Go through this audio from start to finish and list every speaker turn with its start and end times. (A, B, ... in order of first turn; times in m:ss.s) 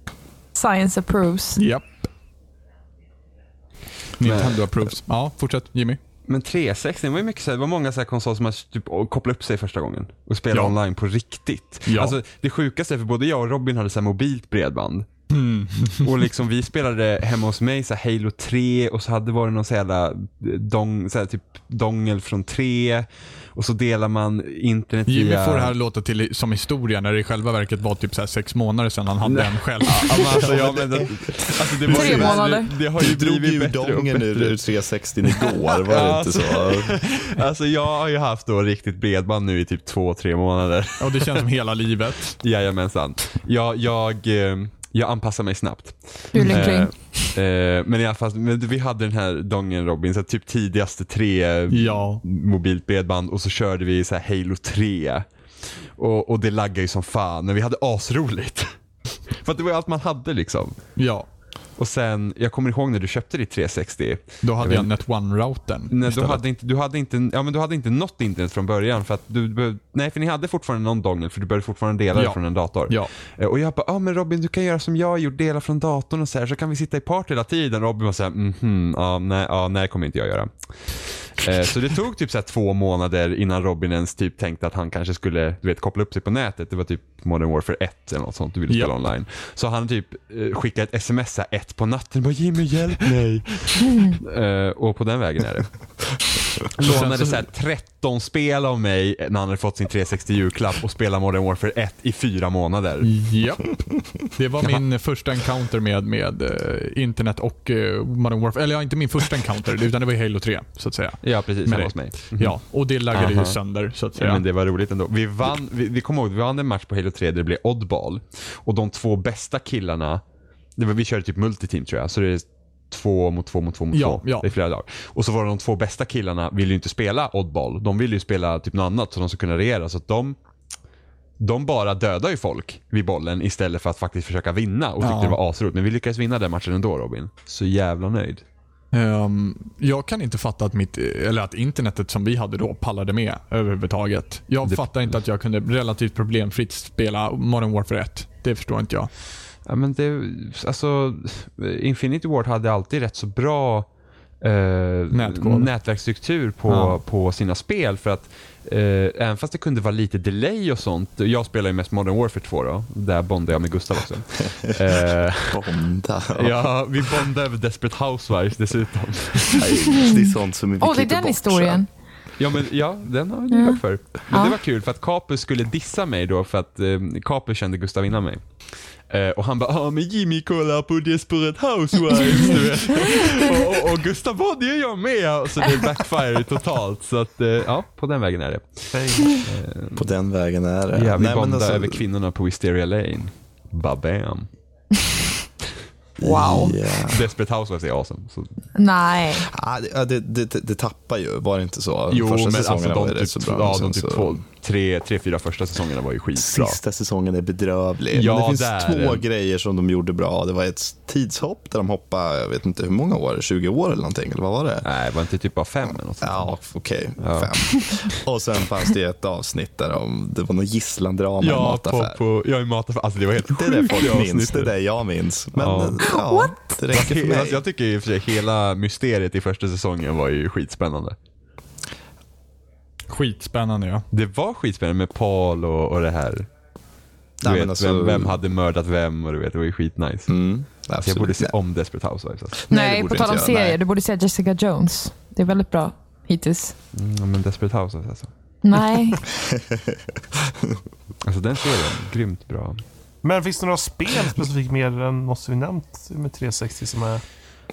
0:00.5-0:01.6 A
0:01.6-0:01.9 B
0:04.2-0:06.0 B
0:04.2-0:04.6 C
0:06.3-0:15.1 C
0:11.9-0:12.2 B
0:15.3-0:16.1 B
0:16.0-0:25.7 C
0:25.1-0:30.5 B
0:29.2-0:34.6 C
0:30.4-0:31.1 D
0:31.8-0:32.4 D
0:31.8-0:32.7 A
0:33.0-0:37.0 D
0:35.3-0:41.4 C
0:41.0-0:42.4 B
0:42.4-0:55.2 C
0:46.3-0:47.1 A
0:46.4-0:46.8 B
0:51.7-0:52.2 B
0:56.0-0:58.7 C
0:59.3-1:00.8 C
1:01.0-1:01.3 B
1:01.8-1:04.9 C
1:04.4-1:06.4 B
1:05.9-1:35.8 C
1:12.1-1:13.1 B
1:36.7-1:43.1 C
1:36.8-1:37.4 B
1:43.0-1:54.4 B
1:51.2-1:52.6 C
1:53.1-1:53.6 C
1:54.2-2:00.2 C
2:00.8-2:10.4 C
2:03.9-2:04.5 B
2:11.4-2:18.4 C
2:15.0-2:15.4 B
2:18.9-2:29.1 B
2:29.6-2:33.9 C
2:34.4-2:45.7 C
2:35.1-2:35.7 B
2:36.7-2:37.0 B
2:45.5-2:46.6 D
2:46.3-2:49.7 C
2:49.5-2:51.8 D
2:49.8-2:51.9 A
2:52.4-2:58.4 C
2:53.5-2:53.8 A
2:54.3-2:54.6 A
2:59.1-3:10.0 C
3:08.9-3:09.4 E
3:10.0-3:12.0 D
3:10.9-3:14.5 C
3:16.2-3:17.3 D
3:16.2-3:16.8 A
3:17.0-3:18.6 C
3:18.8-3:19.5 A
3:19.3-3:24.4 D
3:22.1-3:26.8 C
3:26.3-3:34.8 D
3:28.1-3:29.2 C
3:34.8-3:36.5 C
3:36.2-3:42.2 D
3:37.2-3:38.2 C
3:41.4-3:44.7 C
3:43.5-3:47.6 D
3:45.6-3:46.1 C
3:46.0-3:46.6 A
3:46.9-3:51.2 C
3:53.1-3:54.0 B
3:54.1-3:56.5 C
3:57.4-3:58.4 D
3:57.4-4:00.3 C
4:00.3-4:01.5 D
4:01.0-4:02.6 C
4:02.7-4:03.8 D
4:02.7-4:06.7 A
4:06.9-4:08.3 C
4:08.6-4:09.2 A
4:09.4-4:10.8 D
4:11.2-4:12.8 C
4:13.2-4:17.2 E